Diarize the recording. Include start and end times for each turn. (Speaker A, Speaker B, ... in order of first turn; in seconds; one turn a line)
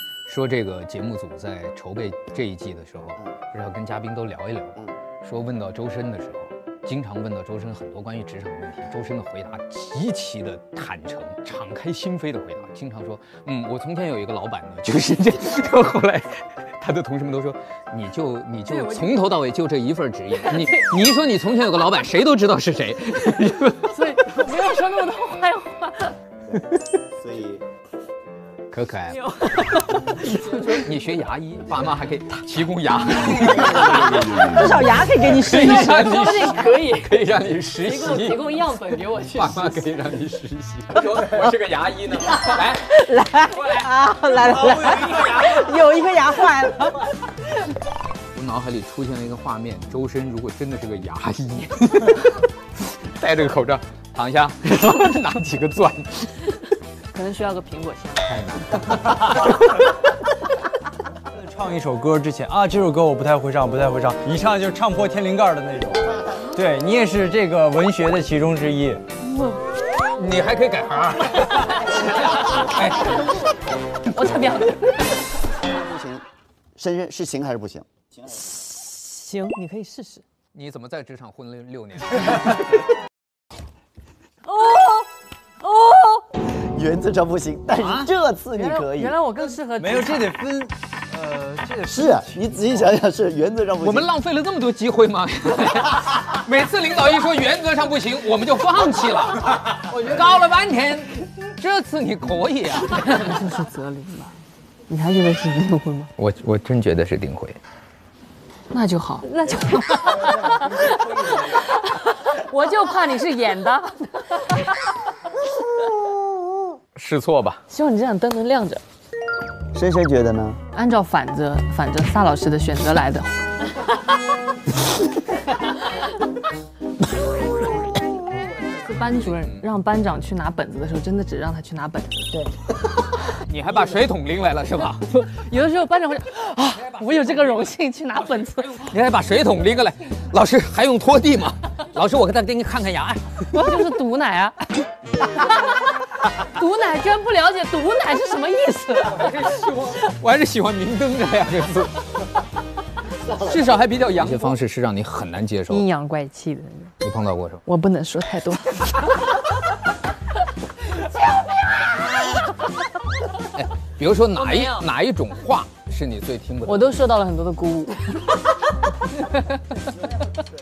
Speaker A: 0.2-23.9
Speaker B: 18.7-19.2
Speaker B: 23.9-26.1
Speaker C: 27.2-27.6
Speaker A: 28.7-29.7
Speaker B: 29.3-30.6
Speaker A: 30.3-42.9
Speaker D: 34.3-36.3
Speaker B: 36.1-37.2
Speaker B: 37.8-39.8
Speaker D: 42.8-47.3
Speaker A: 43.5-43.8
Speaker A: 44.6-45.7
Speaker A: 48.3-52.4
Speaker A: 53.1-56.6
Speaker B: 57.1-58.3
Speaker A: 58.2-59.8
Speaker E: 61.3-69.0
Speaker B: 69.2-69.6
Speaker A: 70.1-73.2
Speaker B: 74.1-75.2
Speaker C: 75.6-76.2
Speaker C: 76.8-77.9
Speaker B: 78.3-80.2
Speaker A: 80.5-82.6
Speaker B: 84.5-85.1
Speaker B: 85.6-86.2
Speaker C: 86.4-89.2
Speaker A: 87.8-88.1
Speaker B: 88.6-90.3
Speaker E: 89.8-92.7
Speaker C: 91.9-94.1
Speaker A: 93.8-103.3
Speaker B: 103.1-104.3
Speaker B: 104.9-106.1
Speaker A: 106.2-107.6
Speaker B: 108.7-114.7
Speaker A: 117.0-117.6
Speaker B: 117.7-118.8
Speaker C: 119.7-120.6
Speaker B: 120.7-123.4
Speaker B: 128.7-132.3
Speaker A: 129.3-129.6
Speaker A: 133.3-135.0
Speaker B: 135.1-138.9
Speaker A: 138.8-143.7
Speaker B: 143.5-144.6
Speaker B: 146.4-149.3
Speaker A: 149.1-152.2
Speaker A: 153.3-155.8
Speaker B: 155.7-156.9
Speaker A: 157.0-157.6
Speaker B: 157.7-159.2
Speaker A: 163.5-166.9
Speaker B: 166.7-168.5
Speaker B: 169.1-169.8